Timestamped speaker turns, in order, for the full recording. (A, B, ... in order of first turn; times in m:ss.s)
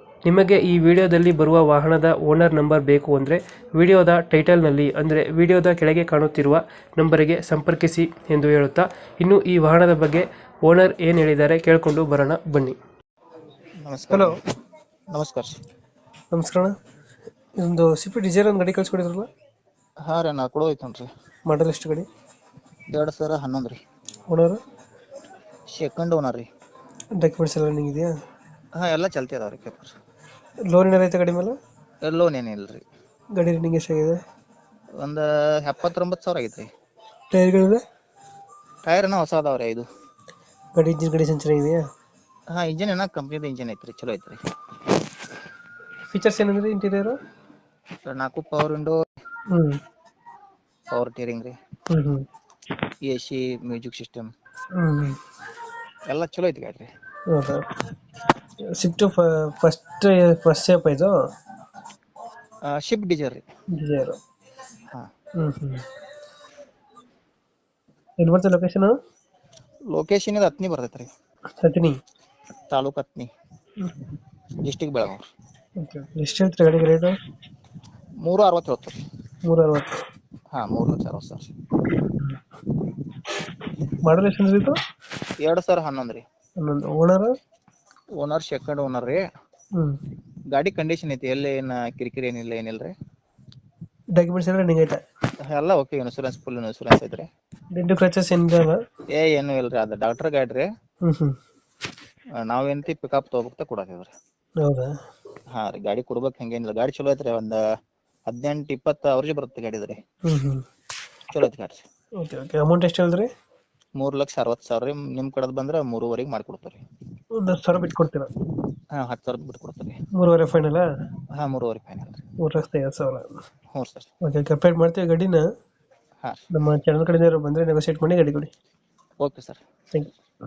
0:00.2-0:12.8 A
0:13.8-0:14.3 B
0:14.1-0:14.4 A
0:15.1-0:15.6 B
0:16.3-0:16.7 A
0:17.6-0:19.3 A
0:20.0-0:21.1 B
0:21.5-0:22.0 A
0:22.9-0:23.8 B
0:24.3-0:24.6 A
0:25.7-0:26.4 B
0:27.2-0:28.1 A
0:28.8-0:29.9 B
0:30.7-0:31.6 A
0:32.0-0:32.8 B
0:33.4-0:34.2 A
0:35.0-0:36.7 B
0:37.3-0:37.8 A
0:38.8-0:39.9 B
0:40.7-0:41.8 A
0:42.5-0:44.4 B
0:46.1-0:47.2 A
0:48.0-0:49.0 B
0:49.5-0:49.8 A
0:50.9-0:51.6 B
0:51.9-0:52.2 A
0:53.0-0:54.3 B
0:54.8-0:55.2 A
0:56.0-0:56.9 B
0:57.3-0:57.7 A
0:58.8-1:01.1 A
1:02.7-1:03.4 B
1:03.8-1:04.2 A
1:05.4-1:05.8 A
1:08.2-1:08.9 A
1:09.9-1:11.1 B
1:11.6-1:12.0 A
1:12.7-1:13.3 B
1:14.6-1:15.2 B
1:15.8-1:17.2 A
1:18.2-1:19.0 B
1:19.4-1:20.0 A
1:20.5-1:21.5 B
1:24.0-1:24.8 A
1:25.4-1:26.2 B
1:26.6-1:27.3 A
1:28.2-1:29.2 B
1:30.5-1:32.9 B
1:34.2-1:35.0 A
1:35.4-1:37.3 B
1:37.8-1:38.8 A
1:39.1-1:40.7 B
1:41.0-1:41.4 A
1:42.4-1:44.1 B
1:44.6-1:44.9 A
1:45.5-1:47.6 B
1:48.3-1:50.0 B
1:50.3-1:50.6 A
1:51.3-1:51.8 B
1:52.2-1:53.3 A
1:54.0-1:56.8 B
1:57.4-1:58.3 A
1:58.9-2:00.0 B
2:00.2-2:00.8 A
2:01.3-2:02.2 B
2:02.4-2:03.3 A
2:03.7-2:04.1 B
2:04.2-2:05.4 A
2:06.5-2:08.5 A
2:09.2-2:09.6 B